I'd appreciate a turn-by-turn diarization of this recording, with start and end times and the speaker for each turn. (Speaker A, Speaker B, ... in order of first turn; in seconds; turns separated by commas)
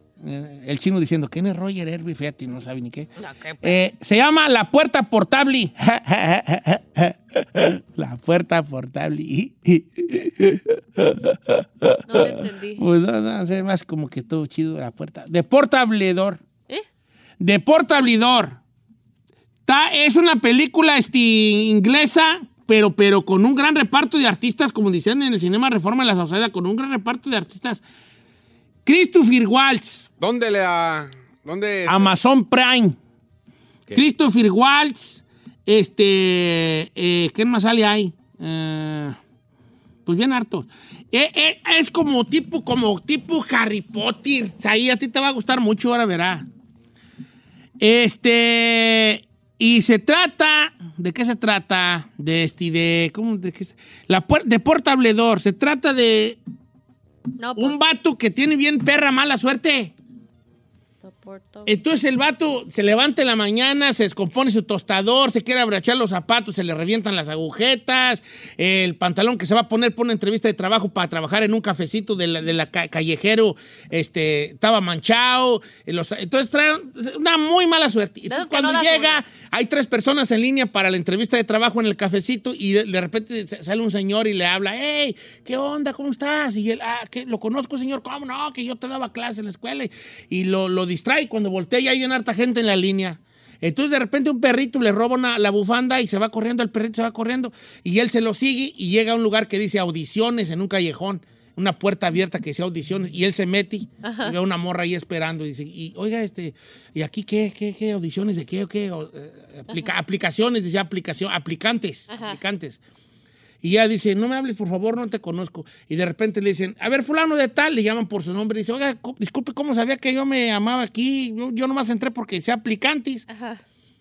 Speaker A: 0.2-3.1, Speaker B: 3.2-3.7, Speaker A: 3.6-16.4, Speaker B: 12.1-12.8, Speaker A: 17.4-18.6, Speaker A: 19.7-27.8, Speaker A: 28.9-30.1, Speaker C: 30.2-32.2, Speaker A: 31.9-33.0, Speaker A: 33.9-39.2, Speaker A: 40.1-46.5, Speaker A: 47.8-56.4, Speaker B: 57.4-57.8, Speaker A: 57.6-59.9, Speaker B: 61.0-61.7, Speaker A: 61.7-112.8, Speaker B: 78.3-79.2, Speaker B: 104.0-104.3, Speaker B: 112.1-112.4, Speaker A: 113.6-123.2, Speaker B: 123.3-123.6